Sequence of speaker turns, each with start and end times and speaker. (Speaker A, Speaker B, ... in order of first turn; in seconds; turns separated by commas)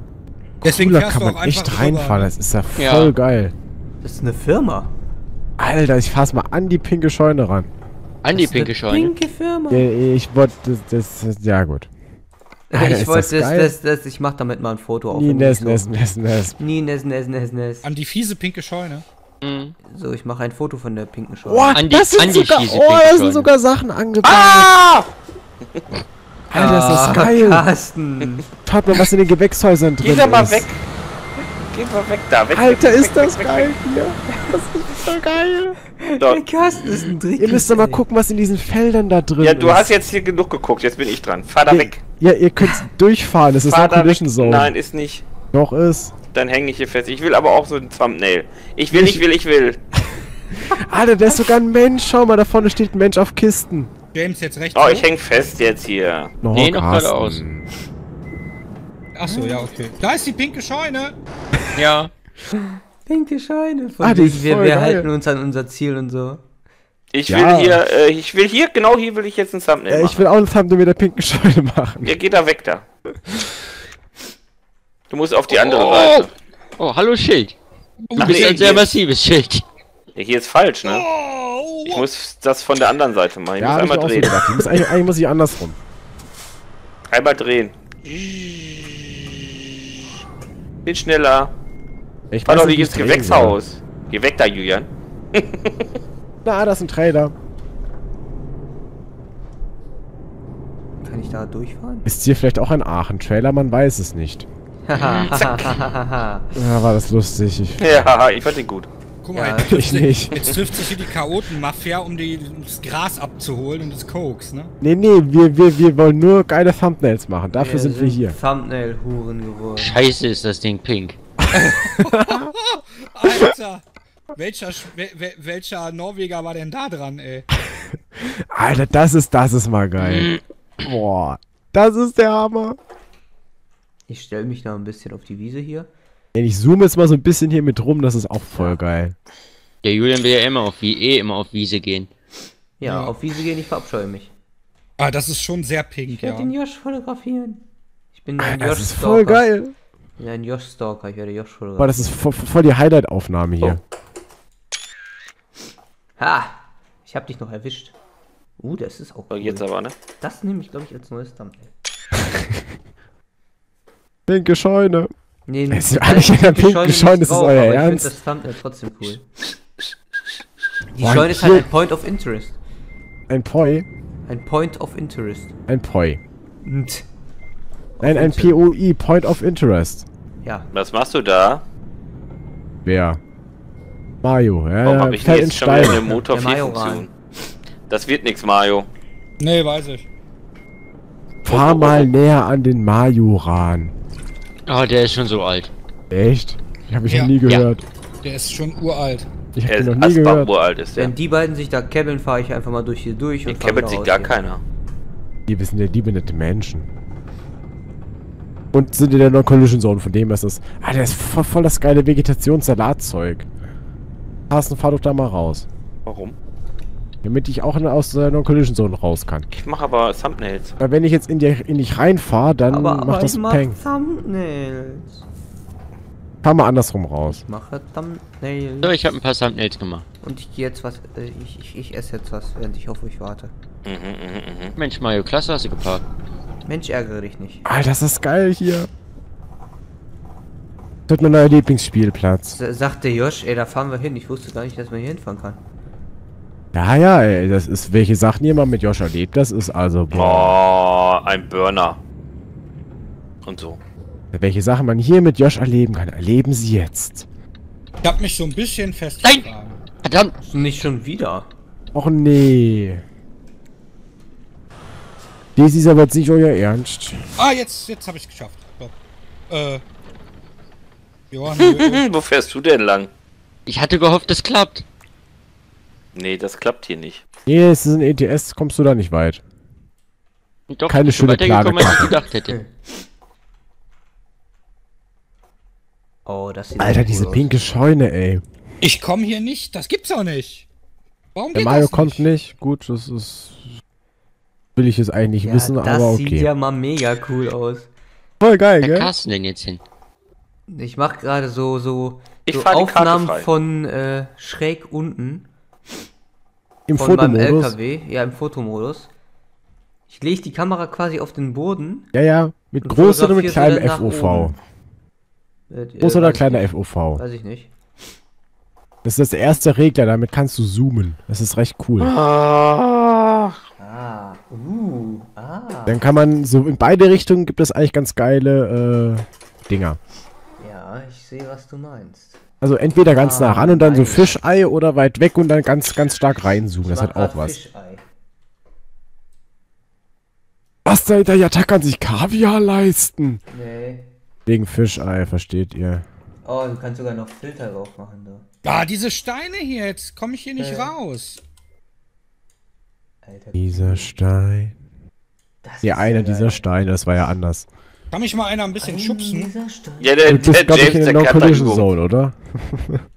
Speaker A: 0.6-3.5, Speaker B: 0.6-2.3, Speaker C: 2.8-3.1, Speaker D: 4.0-4.9, Speaker A: 5.6-7.7, Speaker C: 8.2-9.1, Speaker D: 8.3-9.9, Speaker A: 9.7-11.9, Speaker D: 12.7-16.0, Speaker A: 12.7-13.7, Speaker A: 15.1-16.6, Speaker D: 16.6-17.9, Speaker B: 17.8-19.0, Speaker C: 19.4-19.7, Speaker D: 19.8-21.8, Speaker A: 21.5-24.7, Speaker C: 21.7-23.5, Speaker E: 24.2-25.1, Speaker A: 26.5-27.7, Speaker D: 26.5-28.4, Speaker A: 28.6-30.7, Speaker E: 30.0-30.8, Speaker E: 31.7-33.8, Speaker A: 32.5-35.8, Speaker D: 36.0-38.0, Speaker A: 37.4-40.0, Speaker E: 39.4-42.0, Speaker A: 41.6-44.7, Speaker E: 43.6-45.2, Speaker A: 45.5-46.1, Speaker E: 46.2-49.8, Speaker A: 48.9-49.2, Speaker A: 50.6-53.9, Speaker B: 54.1-55.1, Speaker E: 54.7-56.4, Speaker A: 56.4-57.7, Speaker C: 56.5-57.4, Speaker B: 59.1-61.1, Speaker D: 59.3-59.7, Speaker C: 61.8-62.1, Speaker D: 62.5-66.4, Speaker A: 64.0-65.1, Speaker E: 67.1-70.2, Speaker A: 67.3-67.8, Speaker A: 69.9-72.2, Speaker E: 72.0-72.8, Speaker A: 73.2-73.6, Speaker E: 75.1-76.3, Speaker B: 75.5-76.3, Speaker C: 76.8-77.6, Speaker B: 78.1-78.8, Speaker C: 78.1-79.6, Speaker E: 78.2-78.9, Speaker E: 80.1-81.0, Speaker B: 80.8-82.1, Speaker E: 81.8-84.4, Speaker A: 83.6-85.8, Speaker E: 87.1-88.9, Speaker E: 90.8-91.5, Speaker A: 92.3-93.6, Speaker E: 92.5-95.8, Speaker A: 96.4-97.3, Speaker D: 101.0-102.1, Speaker A: 102.0-104.5, Speaker D: 104.9-106.5, Speaker E: 105.2-105.7, Speaker A: 106.5-108.0, Speaker E: 107.8-108.9, Speaker B: 109.2-114.7, Speaker D: 109.3-109.8, Speaker A: 109.5-110.5, Speaker A: 114.8-118.4, Speaker D: 117.5-120.0, Speaker C: 119.8-121.2, Speaker A: 121.4-122.5, Speaker B: 121.5-123.8, Speaker B: 124.3-127.4, Speaker A: 127.6-130.3, Speaker C: 130.0-130.4, Speaker A: 130.8-132.8, Speaker D: 134.1-135.9, Speaker A: 136.3-139.1, Speaker C: 139.8-142.1, Speaker D: 142.8-144.3, Speaker B: 142.8-143.1, Speaker B: 145.0-146.5, Speaker D: 146.1-147.6, Speaker D: 148.1-149.5, Speaker A: 148.4-149.7, Speaker D: 150.2-152.2, Speaker A: 151.8-153.8, Speaker D: 156.2-157.9, Speaker D: 158.6-161.7, Speaker E: 159.3-159.9, Speaker A: 162.3-162.6, Speaker A: 164.3-165.1, Speaker D: 165.5-169.2, Speaker A: 165.7-168.1, Speaker D: 170.9-172.6, Speaker A: 171.0-171.7, Speaker A: 173.3-173.8, Speaker D: 174.3-175.5, Speaker A: 175.7-176.2, Speaker D: 176.6-177.1, Speaker D: 178.0-178.6, Speaker A: 178.0-180.1, Speaker E: 180.7-181.6, Speaker A: 182.8-183.2, Speaker A: 184.2-186.1, Speaker E: 184.8-187.1, Speaker D: 185.9-187.1, Speaker E: 187.9-188.9, Speaker B: 189.4-190.1, Speaker A: 191.4-193.9, Speaker E: 191.5-192.1, Speaker C: 194.7-195.7, Speaker A: 196.1-197.8, Speaker B: 197.1-197.3, Speaker B: 198.2-199.3, Speaker A: 199.5-200.5, Speaker E: 199.7-201.1, Speaker D: 200.9-204.4, Speaker E: 203.4-204.6, Speaker A: 205.5-206.9, Speaker A: 208.7-213.5, Speaker A: 214.5-215.7, Speaker E: 216.1-216.3, Speaker A: 217.2-219.5, Speaker E: 219.5-220.7, Speaker A: 220.8-223.8, Speaker D: 222.7-225.2, Speaker A: 226.4-227.4, Speaker D: 227.2-229.0, Speaker C: 228.8-230.0, Speaker D: 230.2-233.5, Speaker E: 233.8-234.7, Speaker C: 234.8-236.0, Speaker D: 236.6-237.6, Speaker A: 237.7-238.9, Speaker A: 241.1-242.6, Speaker D: 242.5-245.6, Speaker A: 246.7-250.6, Speaker E: 250.1-252.0, Speaker E: 253.4-253.8, Speaker A: 254.3-257.2, Speaker B: 258.0-259.8, Speaker C: 259.2-259.5, Speaker C: 260.0-260.3, Speaker D: 260.4-261.5, Speaker A: 261.9-263.0, Speaker A: 265.6-267.3, Speaker B: 267.4-268.9, Speaker B: 269.5-269.8, Speaker B: 271.3-272.0, Speaker E: 271.6-273.1, Speaker C: 273.7-274.8, Speaker E: 276.1-277.2, Speaker A: 277.4-279.4, Speaker C: 280.7-282.6, Speaker A: 280.9-282.2, Speaker D: 286.2-287.5, Speaker A: 286.8-288.4, Speaker B: 288.8-290.6, Speaker B: 291.3-292.2, Speaker A: 291.5-293.6, Speaker A: 294.8-296.5, Speaker D: 295.4-297.9, Speaker A: 298.4-299.1, Speaker C: 298.8-299.8, Speaker D: 300.7-305.5, Speaker E: 302.4-303.5, Speaker A: 306.9-307.7, Speaker D: 306.9-309.1, Speaker D: 310.1-312.1, Speaker A: 312.1-314.6, Speaker D: 312.8-314.6, Speaker D: 315.7-317.7, Speaker A: 316.0-317.2, Speaker A: 319.0-322.1, Speaker E: 322.0-323.6, Speaker D: 323.8-326.0, Speaker A: 325.9-330.0, Speaker D: 330.6-332.4, Speaker A: 332.6-337.6, Speaker D: 333.1-334.4, Speaker D: 336.8-338.0, Speaker A: 340.8-343.4, Speaker D: 343.5-344.1, Speaker A: 344.5-346.0, Speaker D: 346.4-348.4, Speaker B: 348.6-351.4, Speaker D: 350.6-350.9, Speaker D: 353.2-354.1, Speaker A: 353.6-354.7, Speaker D: 355.6-356.6, Speaker A: 355.8-357.7, Speaker B: 358.1-359.5, Speaker D: 358.8-360.7, Speaker E: 360.0-361.9, Speaker A: 360.2-363.0